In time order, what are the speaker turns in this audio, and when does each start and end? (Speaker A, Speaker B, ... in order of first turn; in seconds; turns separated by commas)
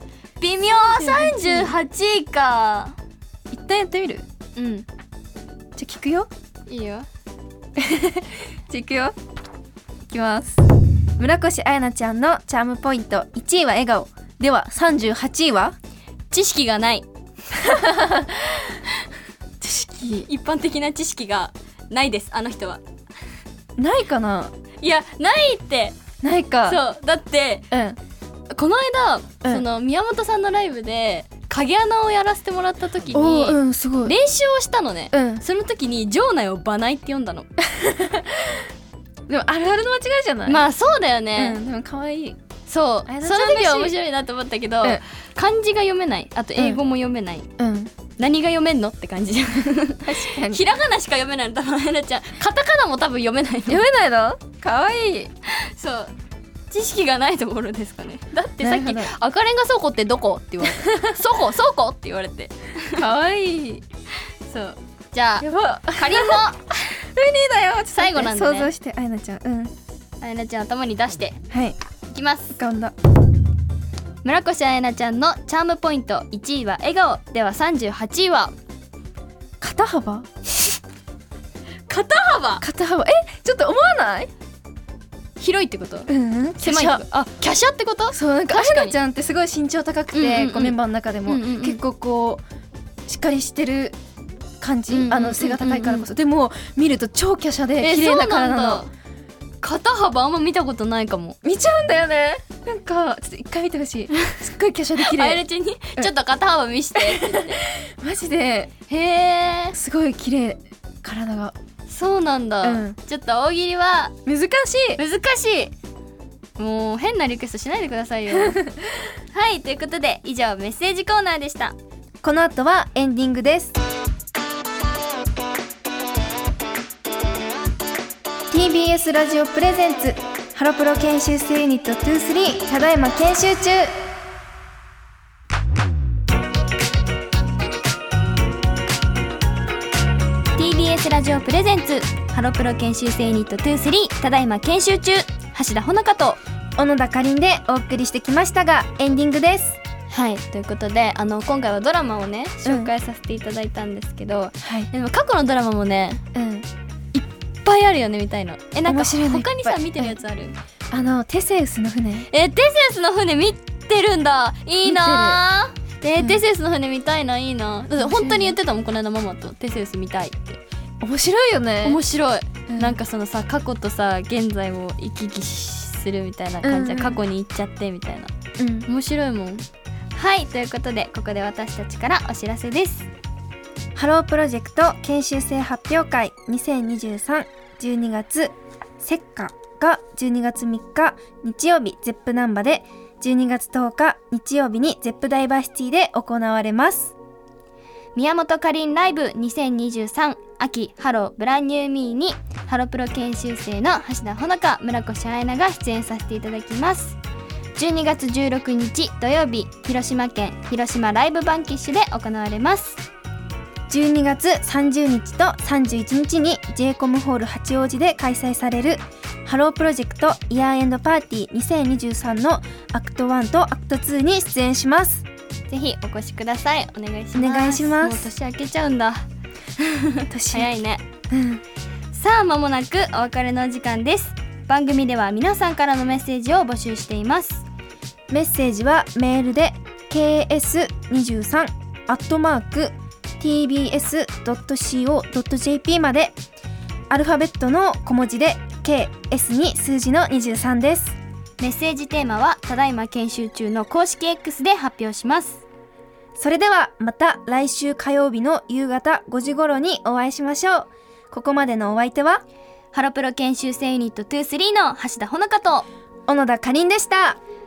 Speaker A: 0.4-2.9, Speaker B: 0.8-1.7, Speaker B: 3.5-4.2, Speaker A: 4.5-4.8, Speaker B: 5.8-6.3, Speaker A: 6.7-7.0, Speaker B: 7.8-9.1, Speaker B: 10.1-10.6, Speaker B: 11.2-15.8, Speaker A: 16.3-17.1, Speaker B: 17.6-18.8, Speaker B: 19.6-20.3, Speaker A: 20.2-22.8, Speaker B: 23.8-24.5, Speaker A: 24.8-26.0, Speaker B: 26.2-26.8, Speaker A: 26.6-27.6, Speaker B: 27.7-28.0, Speaker A: 28.5-37.5, Speaker B: 33.1-34.1, Speaker B: 35.1-35.4, Speaker B: 37.6-38.7, Speaker B: 39.3-40.7, Speaker A: 40.5-41.6, Speaker B: 41.4-42.4, Speaker A: 42.7-47.5, Speaker B: 43.0-44.0, Speaker B: 47.6-47.9, Speaker A: 48.2-53.8, Speaker B: 50.0-50.6, Speaker B: 53.7-55.3, Speaker A: 55.5-56.1, Speaker A: 56.7-63.0, Speaker B: 58.6-59.1, Speaker B: 60.7-61.1, Speaker B: 63.0-63.8, Speaker A: 64.4-66.6, Speaker B: 65.4-69.7, Speaker A: 67.9-68.7, Speaker A: 70.2-71.4, Speaker B: 71.5-71.8, Speaker A: 72.1-72.6, Speaker B: 72.5-72.9, Speaker A: 74.2-78.5, Speaker B: 79.6-80.3, Speaker A: 81.9-82.6, Speaker B: 82.6-84.3, Speaker A: 85.4-89.0, Speaker B: 86.1-87.0, Speaker B: 88.1-92.4, Speaker A: 90.1-91.8, Speaker B: 93.0-94.0, Speaker B: 94.6-98.9, Speaker A: 94.9-96.1, Speaker A: 97.8-98.9, Speaker A: 99.6-101.4, Speaker B: 101.4-105.4, Speaker A: 105.0-107.6, Speaker B: 106.9-108.7, Speaker A: 108.9-109.8, Speaker B: 109.7-111.5, Speaker A: 111.9-114.2, Speaker B: 112.6-113.0, Speaker B: 114.2-115.0, Speaker A: 115.0-115.7, Speaker A: 116.6-118.6, Speaker B: 118.3-118.7, Speaker A: 119.3-121.8, Speaker B: 122.2-123.8, Speaker B: 128.5-134.1, Speaker A: 140.6-146.4, Speaker B: 146.8-149.8, Speaker A: 150.1-156.2, Speaker B: 152.6-152.9, Speaker B: 154.6-154.9, Speaker B: 156.3-156.7, Speaker A: 157.1-160.6, Speaker B: 158.8-160.2, Speaker B: 160.9-162.3, Speaker A: 162.3-170.6, Speaker B: 164.8-165.4, Speaker B: 166.2-166.4, Speaker B: 168.0-168.6, Speaker B: 171.0-172.0, Speaker A: 171.8-178.3, Speaker B: 172.7-173.0, Speaker B: 176.6-177.2, Speaker B: 178.6-178.9, Speaker A: 178.8-183.1, Speaker B: 183.9-197.1, Speaker A: 198.1-207.2, Speaker A: 207.8-213.0, Speaker B: 213.9-225.2, Speaker A: 225.7-229.2, Speaker B: 227.3-228.3, Speaker A: 229.8-231.0, Speaker B: 230.3-230.7, Speaker B: 231.3-231.6, Speaker A: 232.1-237.6, Speaker B: 238.3-246.4, Speaker B: 247.1-251.2, Speaker A: 251.6-255.6, Speaker B: 256.4-262.4, Speaker A: 262.9-265.9, Speaker B: 266.3-267.4